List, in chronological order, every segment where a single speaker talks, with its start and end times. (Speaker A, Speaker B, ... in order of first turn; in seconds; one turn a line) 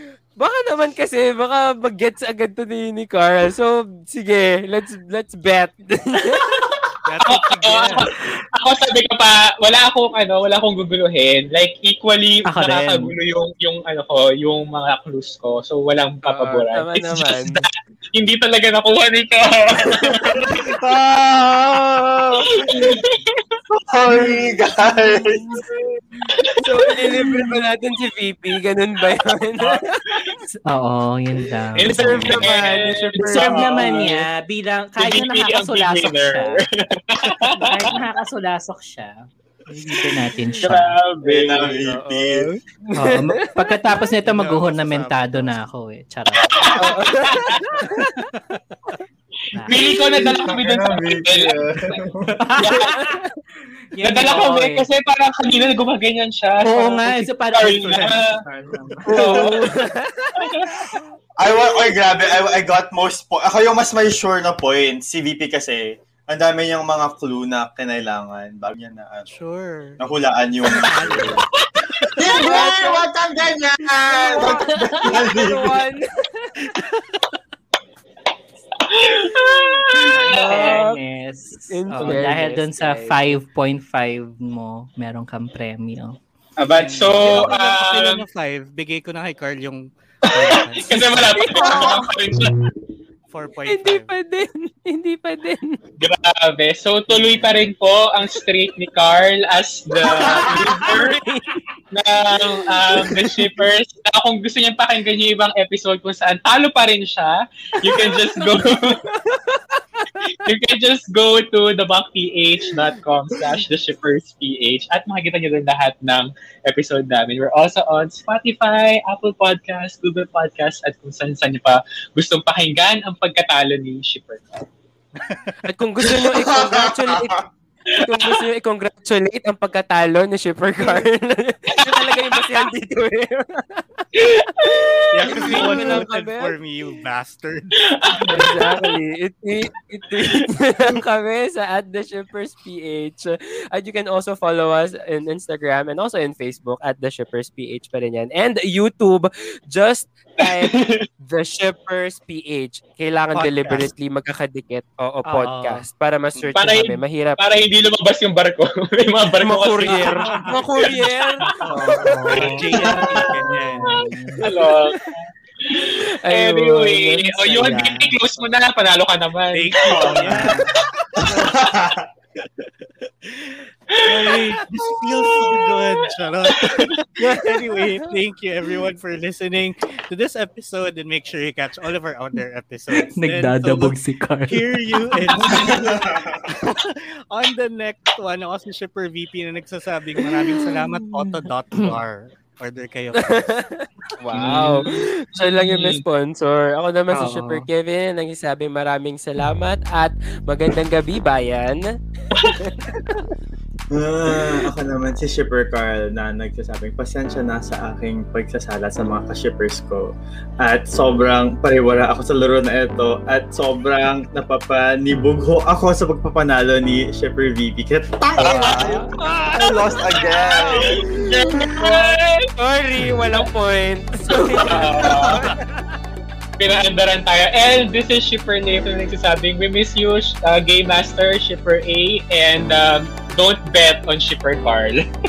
Speaker A: 0.4-6.6
Speaker B: 7.0-8.1
Speaker C: 7.2-20.5
Speaker D: 12.5-13.2
Speaker A: 16.2-17.7
Speaker E: 19.9-23.0
Speaker C: 22.7-23.0
Speaker E: 23.7-26.0
Speaker A: 26.6-30.2
Speaker D: 30.7-32.6
Speaker C: 31.8-34.2
Speaker A: 31.8-34.2
Speaker D: 33.2-36.6
Speaker C: 35.0-37.7
Speaker D: 37.6-40.9
Speaker C: 40.6-41.8
Speaker E: 41.2-42.5
Speaker A: 41.6-43.5
Speaker D: 43.0-46.5
Speaker B: 44.2-45.6
Speaker C: 46.5-47.6
Speaker A: 46.8-48.1
Speaker B: 48.0-48.6
Speaker D: 49.5-49.8
Speaker C: 49.7-52.0
Speaker E: 49.8-52.4
Speaker D: 52.3-53.0
Speaker C: 52.6-53.0
Speaker A: 52.9-53.2
Speaker D: 53.9-54.9
Speaker C: 54.0-58.3
Speaker D: 56.6-59.5
Speaker A: 59.1-60.5
Speaker E: 59.1-59.6
Speaker C: 60.4-60.7
Speaker E: 61.4-69.3
Speaker B: 69.3-70.0
Speaker E: 70.0-71.4
Speaker B: 70.7-71.4
Speaker E: 72.1-75.8
Speaker A: 72.2-73.1
Speaker A: 74.1-76.5
Speaker B: 76.6-77.0
Speaker C: 78.9-80.7
Speaker D: 80.1-86.2
Speaker A: 80.2-81.0
Speaker A: 81.7-83.4
Speaker C: 86.6-88.2
Speaker B: 86.7-91.7
Speaker C: 90.2-92.6
Speaker A: 91.4-92.1
Speaker B: 93.3-94.1
Speaker A: 93.7-95.8
Speaker C: 96.0-101.2
Speaker A: 100.0-101.6
Speaker C: 101.9-109.1
Speaker A: 102.8-103.5
Speaker A: 107.8-110.5
Speaker C: 110.3-124.5
Speaker B: 125.2-125.7
Speaker A: 125.7-127.4
Speaker E: 126.0-127.4
Speaker A: 128.0-134.1
Speaker C: 131.8-132.4
Speaker C: 134.2-136.1
Speaker B: 135.1-137.8
Speaker A: 135.2-136.6
Speaker C: 137.8-138.5
Speaker A: 138.3-157.4
Speaker C: 140.2-140.5
Speaker C: 150.4-151.0
Speaker B: 153.4-153.9
Speaker D: 155.3-155.8
Speaker C: 156.6-160.2
Speaker A: 159.4-162.6
Speaker B: 159.8-164.1
Speaker D: 161.7-164.4
Speaker E: 162.9-163.3
Speaker C: 164.4-165.0
Speaker C: 165.7-170.2
Speaker A: 166.2-167.7
Speaker D: 167.4-168.2
Speaker B: 169.5-170.7
Speaker E: 169.8-172.1
Speaker B: 172.4-172.7
Speaker B: 173.3-184.0
Speaker C: 174.0-174.4
Speaker A: 177.2-178.1
Speaker D: 183.0-185.7
Speaker B: 184.5-193.5
Speaker E: 185.4-186.5
Speaker D: 190.6-191.2
Speaker A: 193.2-203.0
Speaker C: 194.3-194.8
Speaker C: 195.7-196.0
Speaker D: 197.1-197.7
Speaker E: 203.9-221.9
Speaker C: 218.4-218.9
Speaker A: 218.4-225.6
Speaker C: 220.8-222.5
Speaker D: 224.3-224.8
Speaker C: 224.6-225.4
Speaker E: 225.0-225.4
Speaker C: 226.6-235.0